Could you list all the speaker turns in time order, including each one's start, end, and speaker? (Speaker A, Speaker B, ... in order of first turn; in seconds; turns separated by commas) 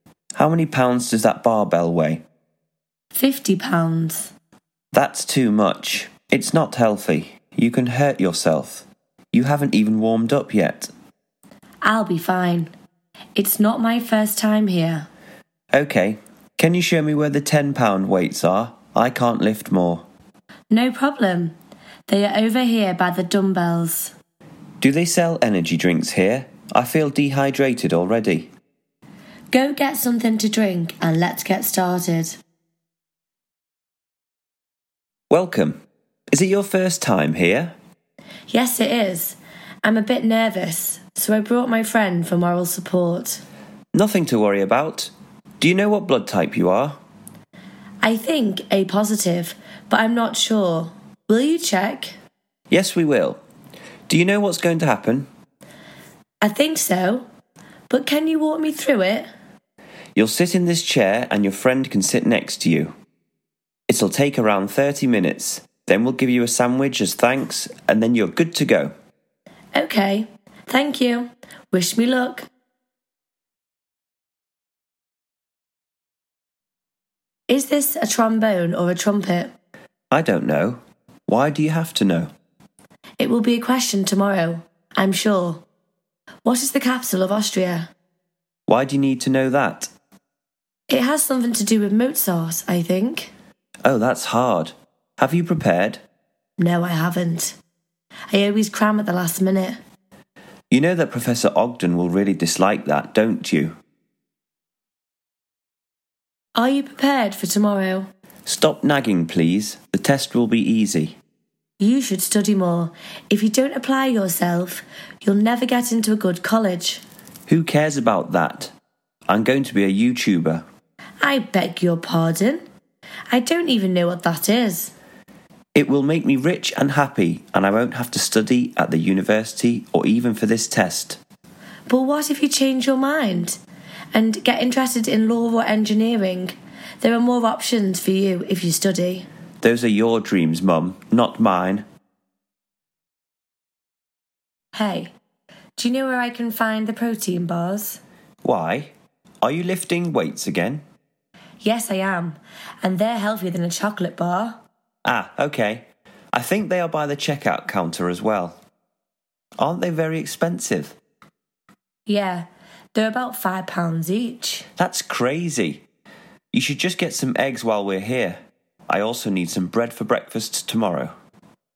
Speaker A: 0.4-2.2, Speaker B: 3.1-4.3, Speaker A: 4.9-10.9, Speaker B: 11.8-12.7, Speaker B: 13.4-15.1, Speaker A: 15.7-20.1, Speaker B: 20.7-21.6, Speaker B: 22.1-24.1, Speaker A: 24.8-28.5, Speaker B: 29.5-32.4, Speaker A: 35.3-35.8, Speaker A: 36.3-37.7, Speaker B: 38.5-43.4, Speaker A: 43.9-47.0, Speaker B: 48.0-52.2, Speaker A: 52.7-53.4, Speaker A: 54.1-55.3, Speaker B: 56.4-57.3, Speaker B: 57.9-59.3, Speaker A: 60.2-62.9, Speaker A: 63.9-68.9, Speaker B: 69.7-72.5, Speaker B: 77.5-79.5, Speaker A: 80.1-82.3, Speaker B: 83.2-85.7, Speaker B: 86.4-87.9, Speaker A: 88.7-89.9, Speaker B: 90.9-93.3, Speaker A: 93.8-96.0, Speaker B: 96.6-97.6, Speaker B: 98.3-99.8, Speaker A: 100.7-103.8, Speaker B: 106.6-108.1, Speaker A: 108.5-111.2, Speaker B: 111.8-117.0, Speaker A: 117.5-118.7, Speaker A: 119.3-120.7, Speaker B: 121.2-122.6, Speaker B: 123.3-124.9, Speaker A: 125.8-131.2, Speaker B: 131.9-133.6, Speaker B: 134.1-139.3, Speaker A: 139.6-141.8, Speaker B: 144.7-145.1, Speaker B: 145.8-148.0, Speaker A: 148.4-150.8, Speaker B: 151.6-154.6, Speaker A: 155.1-158.6, Speaker A: 159.6-161.0, Speaker B: 162.1-164.7, Speaker A: 164.8-165.8, Speaker A: 166.5-171.1